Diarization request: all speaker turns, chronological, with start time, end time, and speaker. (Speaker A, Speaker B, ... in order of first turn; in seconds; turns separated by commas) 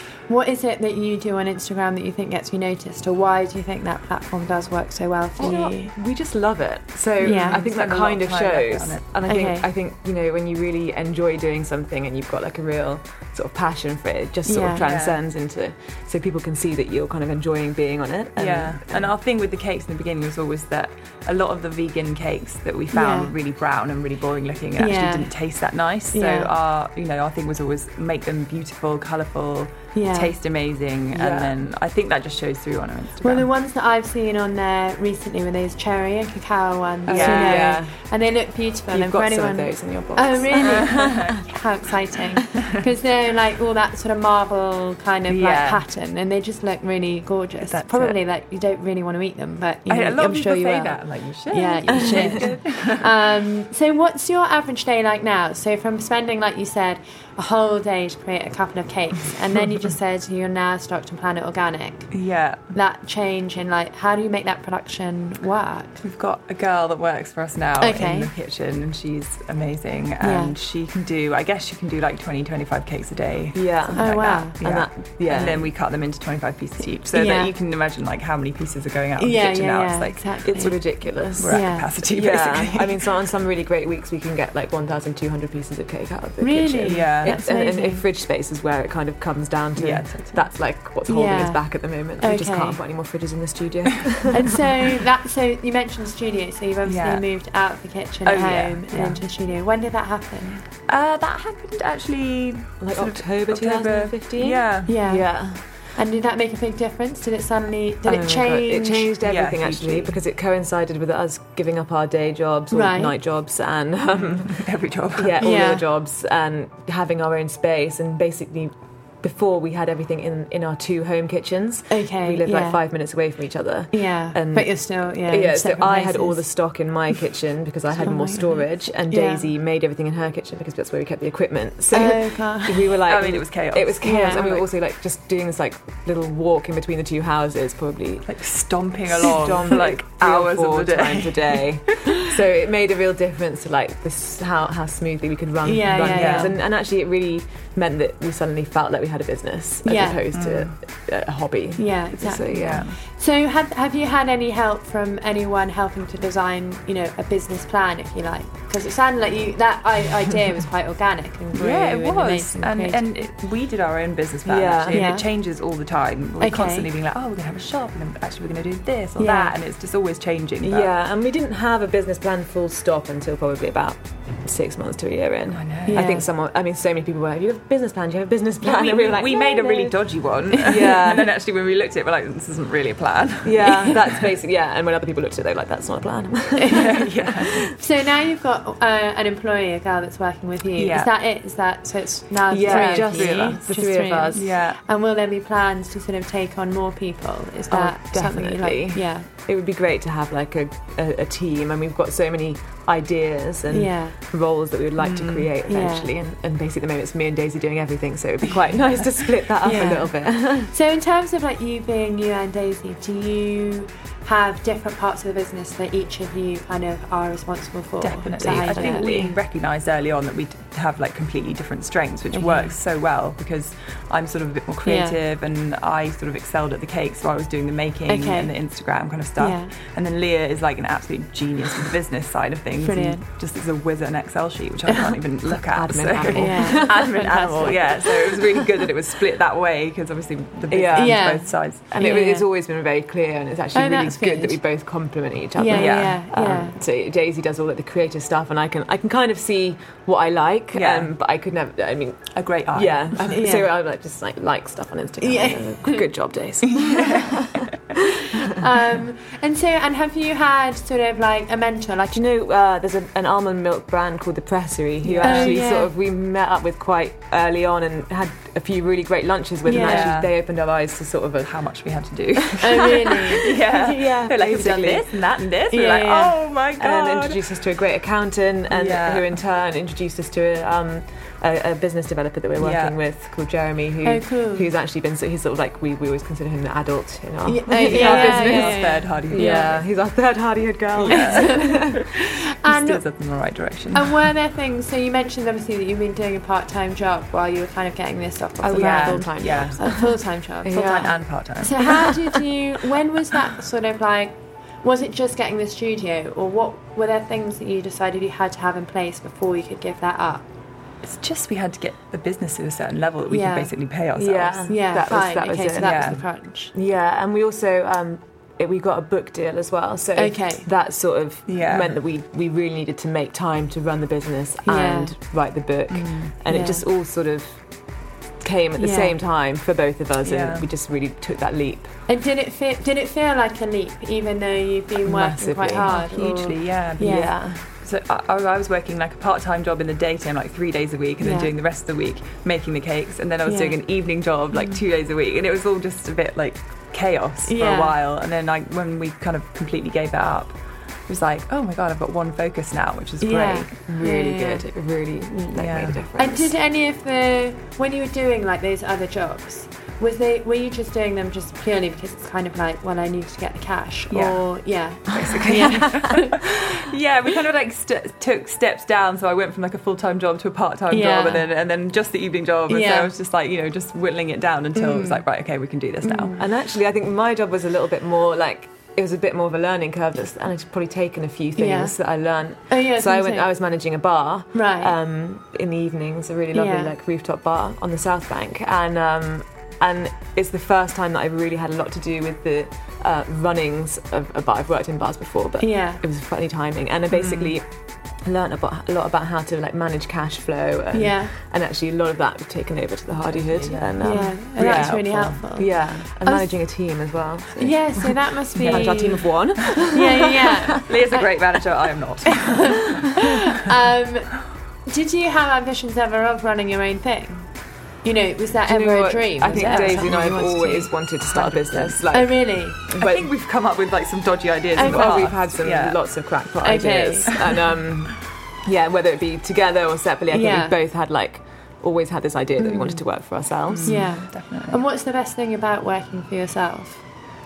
Speaker A: 0.3-5.9, Speaker B: 5.4-19.1, Speaker C: 7.2-9.1, Speaker A: 7.2-7.7, Speaker A: 9.2-9.7, Speaker A: 14.4-14.8, Speaker C: 14.8-15.2, Speaker C: 18.4-33.5, Speaker A: 22.9-23.3, Speaker A: 24.8-25.3, Speaker A: 26.1-26.5, Speaker A: 29.9-30.4, Speaker B: 31.1-31.6, Speaker A: 33.2-62.1, Speaker C: 37.1-37.7, Speaker B: 37.1-38.0, Speaker B: 38.9-41.1, Speaker C: 40.5-41.2, Speaker C: 45.3-45.8, Speaker C: 47.6-48.1, Speaker C: 49.9-53.1, Speaker B: 52.1-52.4, Speaker C: 62.1-62.7, Speaker A: 62.7-66.0, Speaker C: 66.0-80.7, Speaker A: 67.8-68.3, Speaker A: 70.2-70.5, Speaker B: 73.5-75.7, Speaker A: 73.9-74.6, Speaker A: 77.1-77.5, Speaker A: 79.2-81.9, Speaker B: 80.4-94.5, Speaker C: 81.4-83.0, Speaker A: 86.4-88.0, Speaker C: 86.8-87.4, Speaker C: 89.7-90.4, Speaker A: 91.1-91.6, Speaker A: 92.2-92.8, Speaker A: 94.3-100.6, Speaker C: 96.8-97.2, Speaker C: 98.2-99.2, Speaker C: 100.9-105.0, Speaker B: 102.8-105.6, Speaker A: 104.8-109.1, Speaker B: 108.0-114.7, Speaker C: 109.2-110.1, Speaker A: 112.7-113.1, Speaker C: 114.1-115.4, Speaker B: 115.2-138.3, Speaker A: 115.4-115.8, Speaker A: 121.9-122.8, Speaker A: 123.9-126.5, Speaker A: 128.0-129.5, Speaker A: 131.9-132.9, Speaker C: 133.1-134.7, Speaker A: 134.0-134.4, Speaker C: 138.2-142.1, Speaker B: 139.0-152.8, Speaker A: 145.6-146.6, Speaker C: 145.9-146.5, Speaker A: 149.8-150.2, Speaker C: 150.3-150.7, Speaker A: 151.8-163.1, Speaker C: 152.5-152.9, Speaker C: 161.5-170.9, Speaker B: 164.4-165.1, Speaker A: 164.9-165.2, Speaker A: 166.4-166.9, Speaker A: 169.2-169.5, Speaker B: 170.6-180.0, Speaker C: 175.5-176.1, Speaker A: 175.9-176.3, Speaker C: 178.6-184.3, Speaker B: 180.5-181.3, Speaker B: 183.4-187.0, Speaker A: 183.6-183.9, Speaker A: 186.6-186.9, Speaker C: 186.7-187.7, Speaker A: 187.8-199.3, Speaker C: 190.7-191.1, Speaker B: 192.5-194.5, Speaker C: 192.6-193.6, Speaker C: 194.3-194.8, Speaker B: 197.7-210.7, Speaker A: 203.7-204.2, Speaker C: 205.0-205.5, Speaker A: 205.7-206.1, Speaker C: 208.4-208.8, Speaker A: 209.6-219.2, Speaker C: 209.6-210.0, Speaker C: 218.0-241.9, Speaker B: 218.4-219.3, Speaker A: 222.3-222.8, Speaker A: 224.8-225.2, Speaker A: 228.1-228.5, Speaker A: 229.4-229.7, Speaker A: 232.8-233.2, Speaker B: 235.7-237.2, Speaker A: 236.3-238.0, Speaker B: 238.0-238.4, Speaker B: 240.7-241.2, Speaker A: 240.9-242.4, Speaker B: 241.9-258.6, Speaker A: 243.7-244.6, Speaker A: 245.6-246.8, Speaker C: 245.7-246.2, Speaker C: 250.7-251.1, Speaker C: 252.3-253.4, Speaker A: 253.3-253.7, Speaker A: 255.2-256.1, Speaker C: 256.7-257.6, Speaker A: 258.4-262.2, Speaker B: 262.1-271.5, Speaker C: 265.0-265.7, Speaker A: 265.2-265.9, Speaker A: 269.6-270.2, Speaker C: 269.6-270.3, Speaker C: 271.4-277.4, Speaker A: 272.6-274.1, Speaker B: 272.8-275.4, Speaker A: 275.7-276.4, Speaker B: 276.8-291.9, Speaker C: 278.7-279.4, Speaker C: 282.6-282.9, Speaker A: 284.0-284.7, Speaker A: 287.4-289.8, Speaker C: 287.9-289.7, Speaker C: 291.0-292.1, Speaker A: 291.1-293.0, Speaker C: 292.6-294.2, Speaker A: 293.9-310.4, Speaker B: 298.6-300.0, Speaker C: 298.7-300.0, Speaker B: 300.6-301.1, Speaker C: 300.7-302.1, Speaker C: 311.0-314.8, Speaker A: 313.3-313.7, Speaker B: 314.1-327.6, Speaker A: 314.7-316.7, Speaker C: 315.8-316.2, Speaker A: 320.1-320.7, Speaker C: 321.5-321.9, Speaker A: 324.6-325.1, Speaker C: 325.9-326.4, Speaker A: 326.5-326.8, Speaker B: 328.4-331.9, Speaker A: 328.8-329.1, Speaker C: 330.2-330.7, Speaker A: 332.1-337.3, Speaker B: 335.0-335.9, Speaker C: 335.8-350.5, Speaker B: 337.1-337.6, Speaker A: 341.2-341.5, Speaker A: 343.4-343.8, Speaker A: 347.4-348.0, Speaker C: 351.1-353.8, Speaker A: 353.2-354.6, Speaker B: 353.9-356.5, Speaker C: 355.5-356.0, Speaker A: 356.1-366.6, Speaker C: 364.1-364.5, Speaker C: 365.1-376.4, Speaker B: 365.1-366.0, Speaker A: 370.9-371.5, Speaker A: 372.7-373.1, Speaker A: 374.8-375.2, Speaker A: 376.0-376.5, Speaker B: 376.4-397.6, Speaker A: 381.6-382.0, Speaker A: 382.7-383.5, Speaker A: 384.5-384.9, Speaker A: 386.5-386.9, Speaker A: 395.6-396.0, Speaker C: 397.1-397.6, Speaker B: 398.2-410.8, Speaker A: 400.9-401.3, Speaker C: 403.1-405.4, Speaker A: 404.0-406.6, Speaker A: 407.6-409.3, Speaker C: 408.6-413.2, Speaker A: 409.9-411.3, Speaker A: 412.7-414.3, Speaker A: 414.9-417.5, Speaker A: 418.0-420.9, Speaker B: 418.6-423.3, Speaker C: 419.5-420.2, Speaker C: 421.2-422.2, Speaker A: 422.1-422.8, Speaker C: 422.9-426.0, Speaker A: 424.7-425.2, Speaker B: 424.8-434.0, Speaker A: 426.6-427.3, Speaker A: 430.3-430.8, Speaker A: 432.6-433.0, Speaker C: 433.7-434.8, Speaker A: 433.8-437.0